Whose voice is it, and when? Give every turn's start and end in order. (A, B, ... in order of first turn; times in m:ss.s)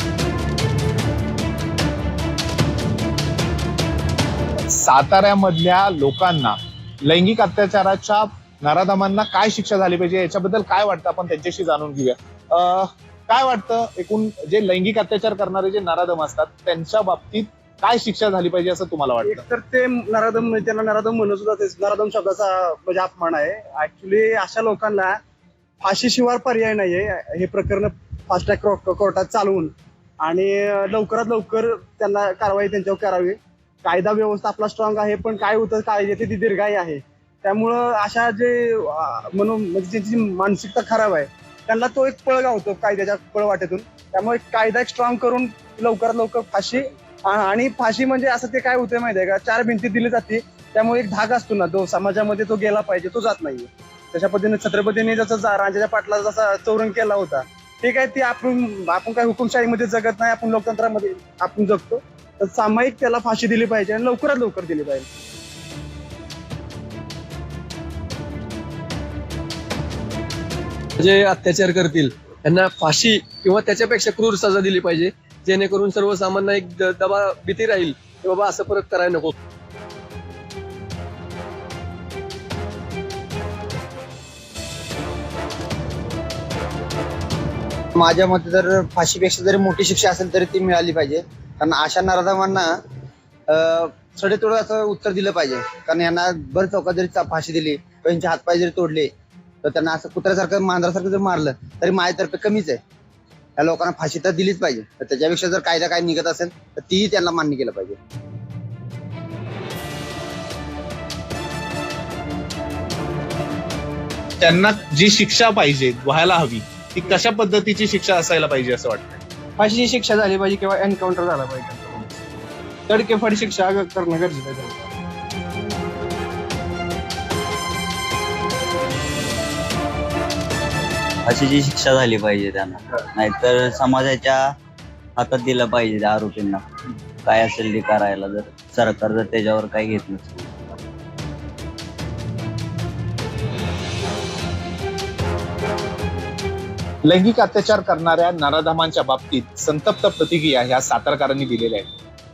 0:04.6-0:19.4 A
0:19.2-0:25.2 B
0:25.8-1:05.1 B
1:11.0-1:19.3 C
1:28.0-1:32.8 D
1:33.5-1:39.1 D
1:39.6-1:42.8 D
1:43.6-1:48.0 D
1:54.4-1:59.2 A
1:59.6-2:02.2 B
2:02.9-2:04.9 B
2:11.3-2:14.5 E
2:15.2-2:16.6 E
2:17.2-2:20.5 E
2:27.0-2:31.9 A